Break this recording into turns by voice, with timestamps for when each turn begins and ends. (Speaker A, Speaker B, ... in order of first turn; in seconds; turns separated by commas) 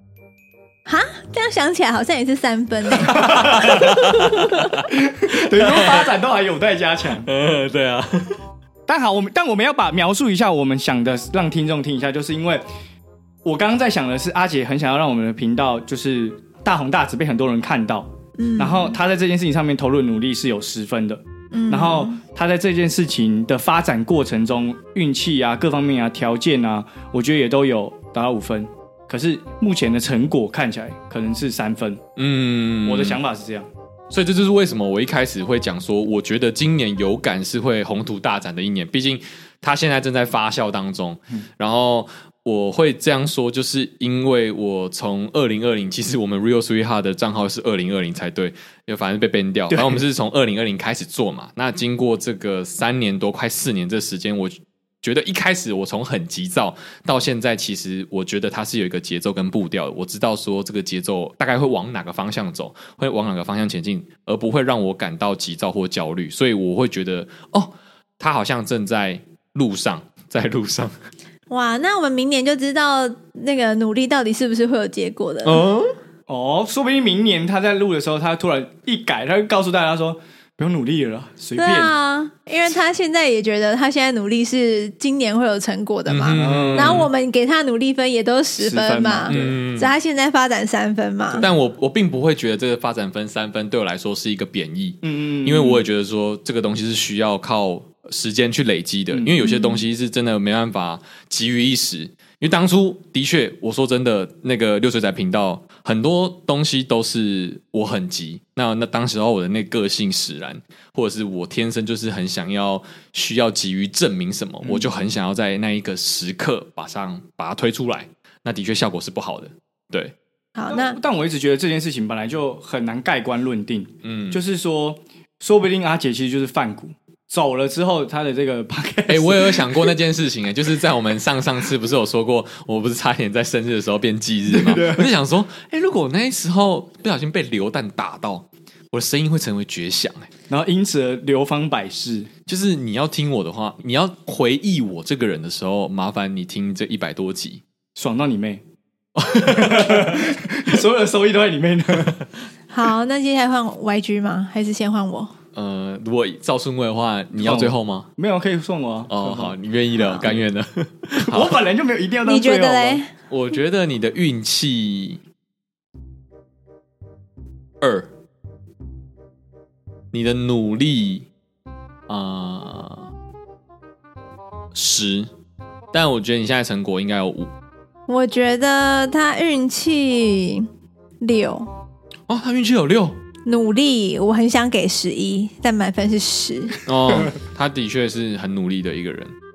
Speaker A: 0.9-4.7, Speaker B: 3.0-4.0, Speaker C: 3.1-6.1, Speaker B: 4.9-7.3, Speaker C: 7.2-8.4, Speaker B: 8.9-12.6, Speaker B: 13.4-32.0, Speaker A: 18.4-19.0, Speaker A: 21.5-22.2, Speaker C: 32.2-33.2, Speaker B: 32.9-33.7, Speaker C: 34.1-71.0, Speaker B: 49.7-50.0, Speaker A: 71.5-75.6, Speaker C: 75.4-75.9, Speaker B: 76.3-81.9, Speaker A: 81.6-91.5, Speaker C: 86.1-87.1, Speaker B: 86.3-87.1, Speaker B: 88.6-89.6, Speaker C: 89.3-89.9, Speaker C: 91.3-120.1, Speaker B: 95.0-95.9, Speaker A: 99.4-99.8, Speaker B: 114.6-114.9, Speaker A: 120.5-121.0, Speaker B: 120.7-129.9, Speaker C: 124.0-124.4, Speaker C: 129.1-140.3, Speaker B: 134.5-135.1, Speaker B: 140.5-142.3, Speaker C: 142.5-147.6, Speaker B: 148.0-148.6, Speaker C: 149.2-150.3, Speaker B: 149.5-152.2, Speaker A: 152.7-155.3, Speaker C: 155.6-158.1, Speaker B: 157.4-159.6, Speaker C: 159.1-161.6, Speaker A: 160.0-160.3, Speaker B: 161.2-163.0, Speaker A: 162.2-163.1, Speaker C: 163.3-165.2, Speaker C: 167.8-168.1, Speaker C: 170.1-171.3, Speaker C: 172.1-173.1, Speaker C: 174.7-175.3, Speaker C: 175.9-177.5, Speaker A: 178.1-180.7, Speaker A: 181.2-181.7, Speaker C: 182.3-183.2, Speaker A: 183.5-186.8, Speaker C: 186.8-189.3